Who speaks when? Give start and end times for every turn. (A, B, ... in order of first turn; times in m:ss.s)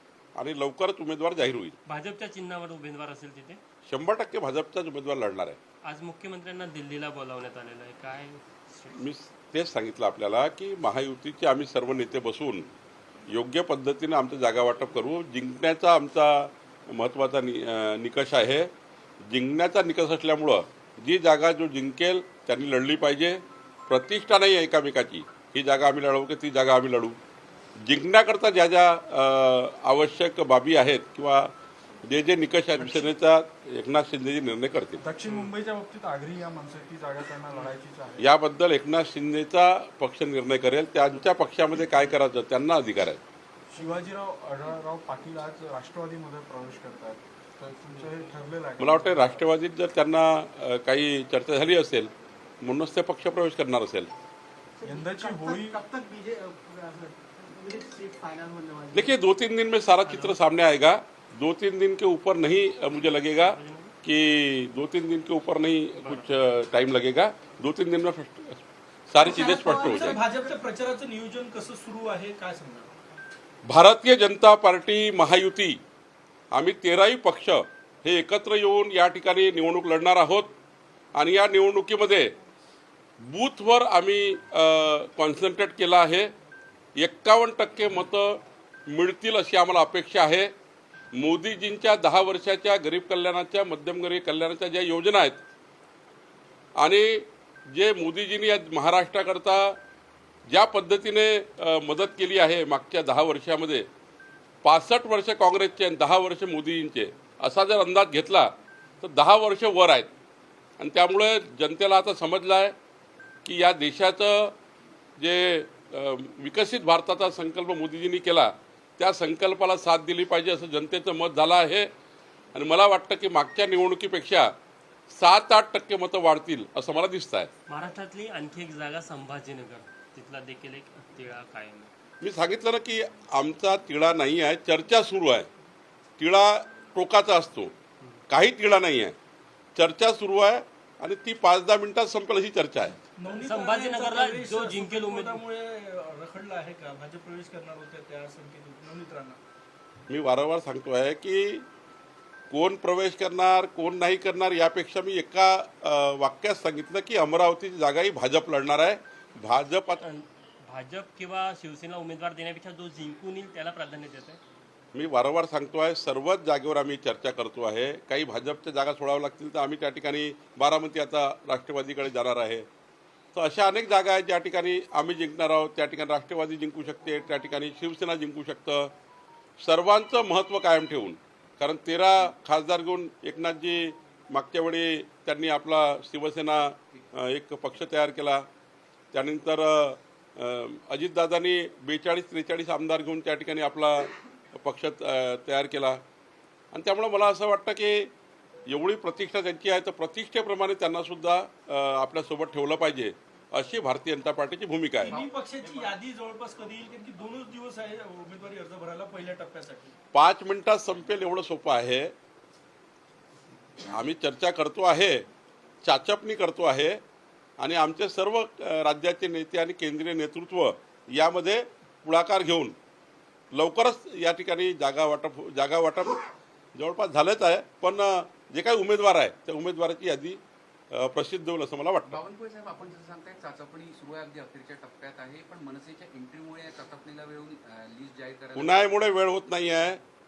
0:00.4-0:01.8 A
0:01.9-0:03.6 B
0:03.8-0:05.6 A
0:05.8-0:09.0 B
0:09.0-0:12.7 A
0:13.3-0:18.7 A
0:19.3-0:27.2 A
0:27.8-0:31.5 A
0:32.1-0:35.0 A
0:35.0-0:38.3 C
0:38.2-0:43.2 A
0:43.7-0:49.5 C
0:48.8-0:52.1 A
0:52.6-0:54.1 A
0:54.8-0:59.1 D
0:54.8-0:55.8 C
0:58.9-1:10.2 A
1:00.0-1:00.4 B
1:02.9-1:04.0 B
1:06.0-1:06.3 B
1:09.2-1:12.9 E
1:09.2-1:10.1 D
1:13.7-1:15.8 A
1:16.5-1:20.6 A
1:21.2-1:22.3 A
1:23.2-1:26.3 A
1:27.0-1:30.5 A
1:31.2-1:35.4 A
1:36.8-1:39.8 A
1:40.5-1:43.9 A
1:44.6-1:50.1 A
1:50.8-1:52.8 A
1:53.4-1:54.6 A
1:55.2-2:01.9 A
2:02.5-2:04.5 A
2:05.1-2:07.5 A
2:07.7-2:11.9 B
2:12.2-2:15.5 A
2:16.2-2:17.7 A
2:18.3-2:19.2 A
2:19.8-2:23.0 A
2:23.2-2:29.4 E
2:23.4-2:25.4 B
2:30.1-2:31.7 A
2:32.5-2:40.0 A
2:40.0-2:44.4 B
2:44.9-2:52.7 A
2:53.3-2:58.9 A
2:59.6-3:08.4 A
3:09.1-3:16.0 A
3:16.7-3:18.1 A
3:18.7-3:25.2 A
3:25.0-3:30.0 E
3:30.1-3:32.1 A
3:33.9-3:35.2 A
3:35.8-3:37.0 A
3:37.6-3:42.8 A
3:43.5-3:46.2 A
3:46.8-3:50.4 A
3:50.9-3:52.2 A
3:52.1-3:58.9 F
3:58.5-4:00.0 A